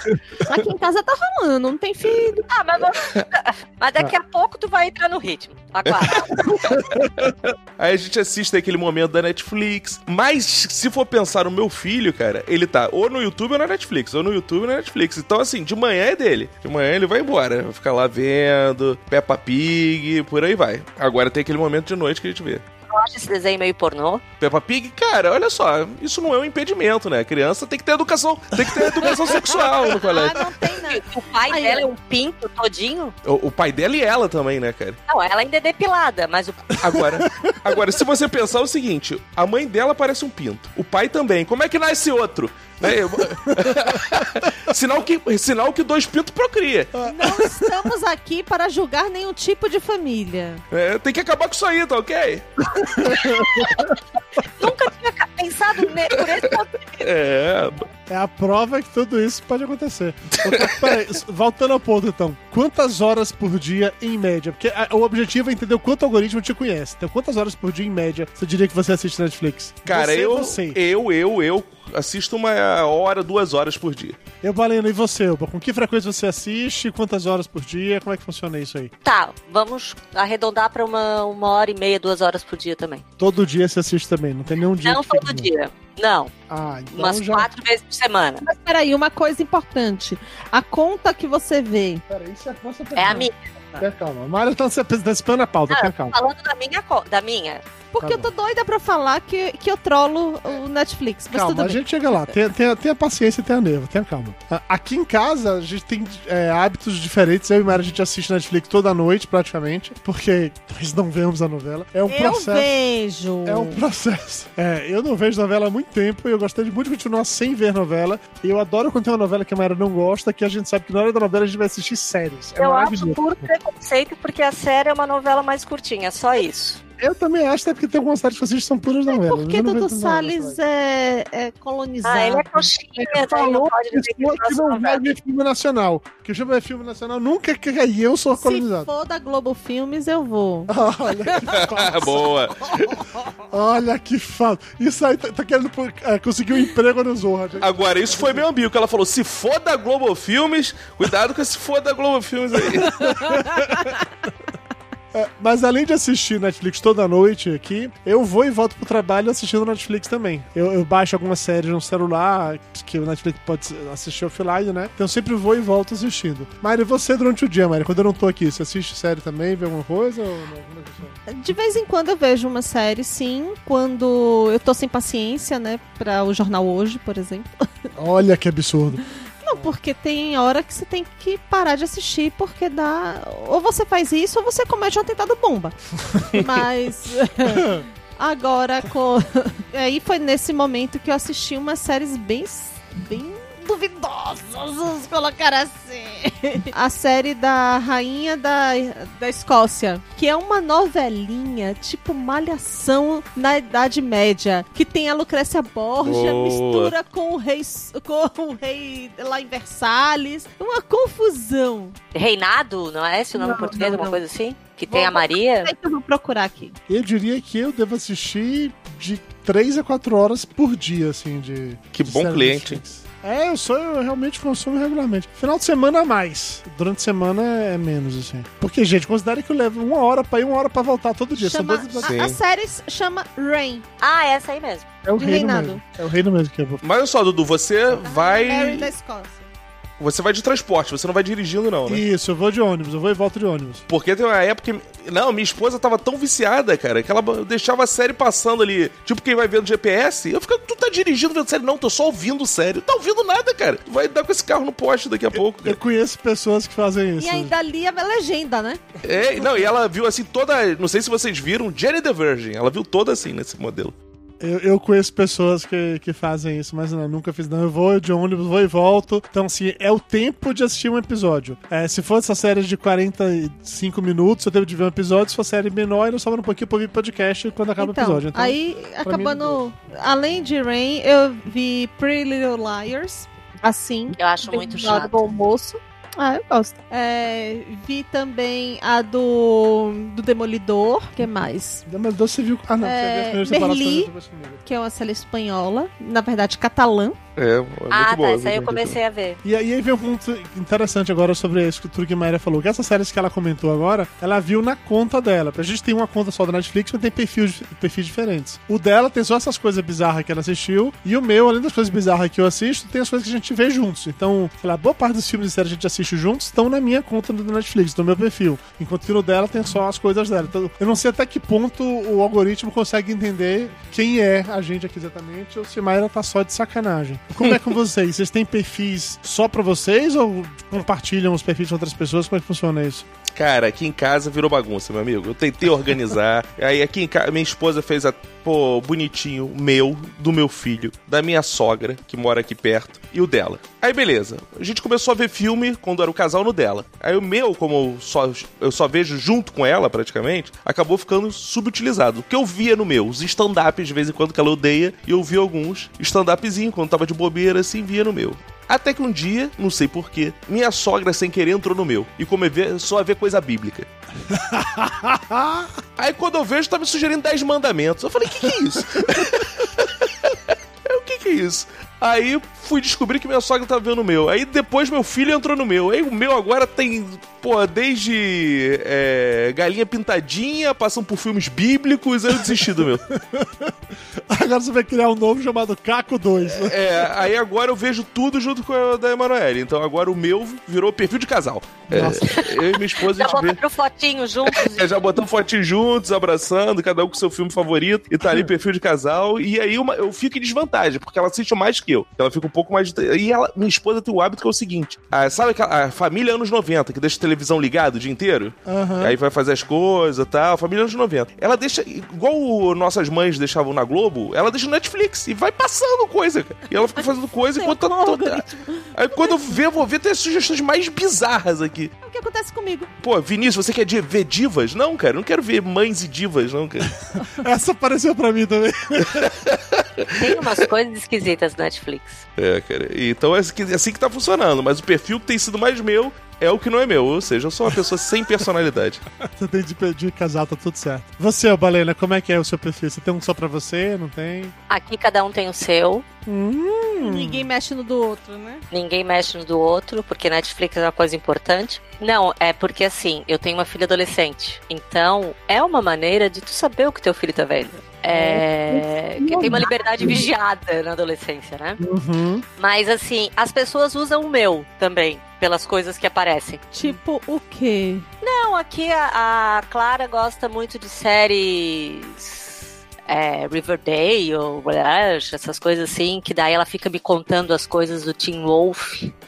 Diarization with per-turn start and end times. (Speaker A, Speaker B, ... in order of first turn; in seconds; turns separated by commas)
Speaker A: 0.4-2.5, Speaker B: 2.5-6.4, Speaker C: 5.9-22.6, Speaker D: 6.5-7.0, Speaker B: 22.9-24.2, Speaker C: 24.4-30.4, Speaker B: 29.4-29.9, Speaker A: 29.9-31.9, Speaker B: 30.7-33.1, Speaker C: 33.2-35.0, Speaker B: 35.1-36.8, Speaker C: 36.8-47.0, Speaker D: 36.9-37.7, Speaker D: 43.4-44.0, Speaker D: 47.0-47.8, Speaker A: 47.0-50.6, Speaker C: 50.7-53.7, Speaker D: 52.8-53.8, Speaker B: 54.6-57.1, Speaker C: 57.0-57.9, Speaker D: 58.1-70.8, Speaker C: 60.4-61.0, Speaker C: 69.9-74.2, Speaker D: 74.4-78.9, Speaker B: 79.0-83.0, Speaker D: 83.2-85.5, Speaker B: 84.8-86.3, Speaker D: 86.5-87.5, Speaker B: 86.9-88.4, Speaker A: 88.4-92.0, Speaker D: 92.1-96.1, Speaker B: 93.0-93.4, Speaker B: 95.7-97.6, Speaker A: 97.9-102.3, Speaker D: 98.0-98.3, Speaker D: 101.3-112.7, Speaker A: 112.1-113.8, Speaker D: 113.5-123.5, Speaker B: 122.6-126.8, Speaker D: 127.0-130.6, Speaker A: 129.1-132.7, Speaker B: 132.0-135.0, Speaker D: 133.0-138.9, Speaker A: 138.3-141.5, Speaker D: 140.7-142.3, Speaker C: 141.5-143.1, Speaker D: 143.5-148.4, Speaker C: 147.6-153.3, Speaker A: 153.0-153.8, Speaker D: 153.2-153.9, Speaker D: 155.1-171.2, Speaker A: 171.3-177.7, Speaker D: 177.9-179.7, Speaker A: 179.4-211.9, Speaker D: 187.5-187.8, Speaker C: 206.0-206.9, Speaker B: 212.1-215.7, Speaker A: 213.3-214.2, Speaker A: 214.9-216.7, Speaker D: 216.9-232.1, Speaker C: 221.9-222.8, Speaker A: 231.4-233.8, Speaker C: 232.0-232.4, Speaker B: 234.0-234.8, Speaker D: 235.0-236.8, Speaker A: 235.2-235.8, Speaker C: 236.8-238.9, Speaker A: 238.0-239.5, Speaker C: 240.0-242.0, Speaker D: 241.9-243.8, Speaker C: 243.9-255.8, Speaker D: 255.3-257.5, Speaker A: 257.2-258.8, Speaker C: 259.0-263.9, Speaker D: 264.4-279.6, Speaker A: 277.8-291.8, Speaker B: 284.2-285.2, Speaker D: 291.9-294.6, Speaker A: 292.8-294.1, Speaker A: 294.6-297.2, Speaker C: 297.4-299.0, Speaker B: 297.9-299.4, Speaker D: 299.4-333.1, Speaker C: 333.3-363.9, Speaker D: 364.3-365.8, Speaker C: 366.0-383.0, Speaker D: 383.1-383.7, Speaker D: 384.3-387.1, Speaker C: 386.5-393.6, Speaker D: 391.9-392.3, Speaker B: 392.2-395.2, Speaker C: 394.5-421.9, Speaker D: 408.6-409.2, Speaker A: 417.0-419.6, Speaker A: 422.0-422.9, Speaker C: 423.0-426.9, Speaker D: 427.4-429.3, Speaker C: 429.1-430.4, Speaker B: 430.1-432.2, Speaker C: 432.4-439.0, Speaker D: 439.2-444.5, Speaker B: 444.7-446.0, Speaker D: 446.2-447.5, Speaker A: 447.0-448.6, Speaker B: 448.7-461.8, Speaker A: 458.1-460.2, Speaker D: 459.5-460.2, Speaker D: 461.8-462.4, Speaker B: 462.6-466.9, Speaker A: 466.7-468.0, Speaker B: 468.2-479.1